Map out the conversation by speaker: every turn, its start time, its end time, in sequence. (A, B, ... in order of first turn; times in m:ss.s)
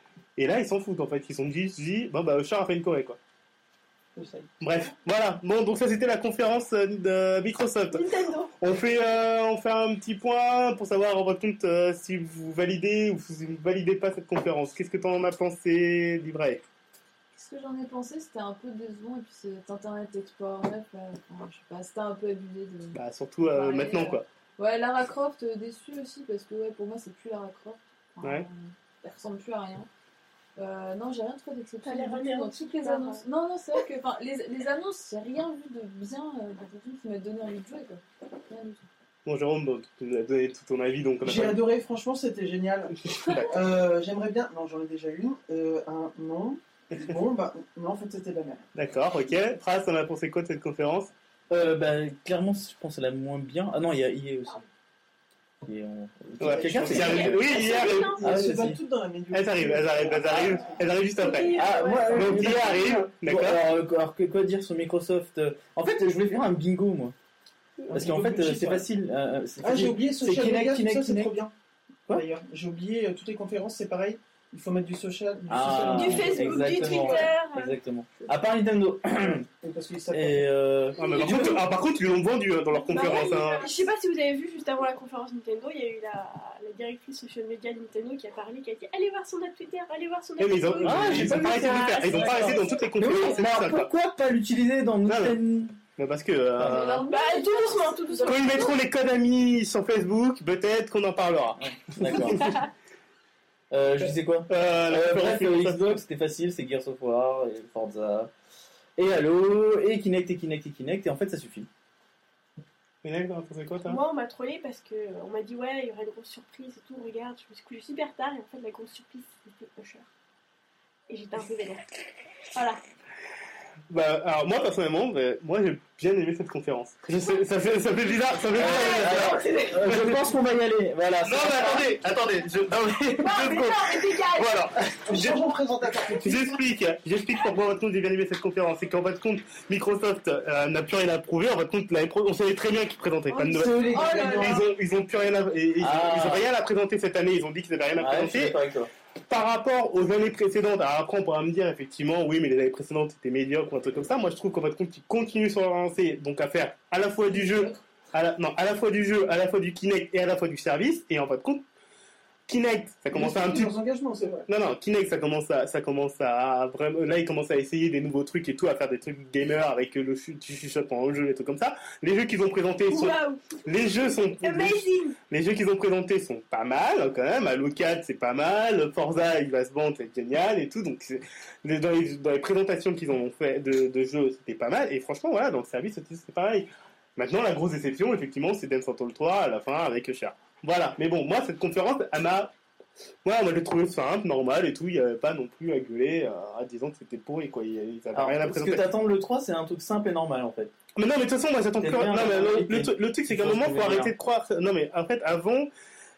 0:00.4-0:03.2 A
0:04.2-0:04.5 B
0:04.6-0:08.0 A
0:07.9-0:08.5 C
0:08.6-0:16.6 A
0:17.3-0:29.9 D
0:23.0-0:24.2 A
0:30.6-0:38.9 D
0:31.8-0:33.2 C
0:39.3-0:41.6 A
0:41.2-0:48.6 B
0:43.2-0:43.5 A
0:48.8-0:51.1 A
0:51.5-0:54.6 E
0:55.6-0:57.6 E
0:56.4-0:58.2 A
0:56.5-1:00.8 B
0:56.9-0:58.4 C
0:58.2-0:58.8 E
0:59.3-1:03.6 A
1:01.2-1:02.7 C
1:01.4-1:07.2 E
1:07.9-1:08.9 B
1:07.9-1:11.4 E
1:09.6-1:11.5 B
1:12.1-1:17.3 B
1:15.5-1:19.5 E
1:15.8-1:17.8 C
1:19.6-1:20.5 B
1:20.1-1:21.6 E
1:21.0-1:23.7 A
1:21.1-1:21.5 C
1:22.9-1:33.4 C
1:30.4-1:33.9 A
1:30.8-1:35.8 E
1:35.1-1:35.4 A
1:36.0-1:37.1 A
1:36.6-1:36.8 E
1:36.6-1:38.7 D
1:37.1-1:38.8 C
1:38.2-1:42.6 A
1:41.6-1:42.5 E
1:42.2-1:42.7 C
1:43.7-1:48.3 E
1:44.5-1:46.0 A
1:49.0-1:51.7 E
1:53.0-1:54.0 A
1:53.9-2:00.1 C
2:01.1-2:01.9 C
2:02.5-2:02.8 C
2:03.9-2:10.3 A
2:08.5-2:12.0 E
2:08.5-2:09.7 C
2:11.2-2:15.4 A
2:13.2-2:14.6 C
2:15.1-2:16.6 B
2:16.2-2:28.6 A
2:23.4-2:24.5 E
2:23.7-2:24.6 B
2:23.9-2:24.6 C
2:24.0-2:24.4 D
2:25.8-2:26.5 E
2:28.0-2:28.9 E
2:29.3-2:41.6 A
2:37.3-2:37.8 D
2:42.5-2:43.8 A
2:43.1-2:44.5 B
2:44.5-3:12.5 A
2:52.9-2:53.6 C
2:54.4-2:55.2 C
3:13.2-3:18.9 A
3:18.1-3:20.7 E
3:21.0-3:25.7 A
3:21.8-3:24.1 E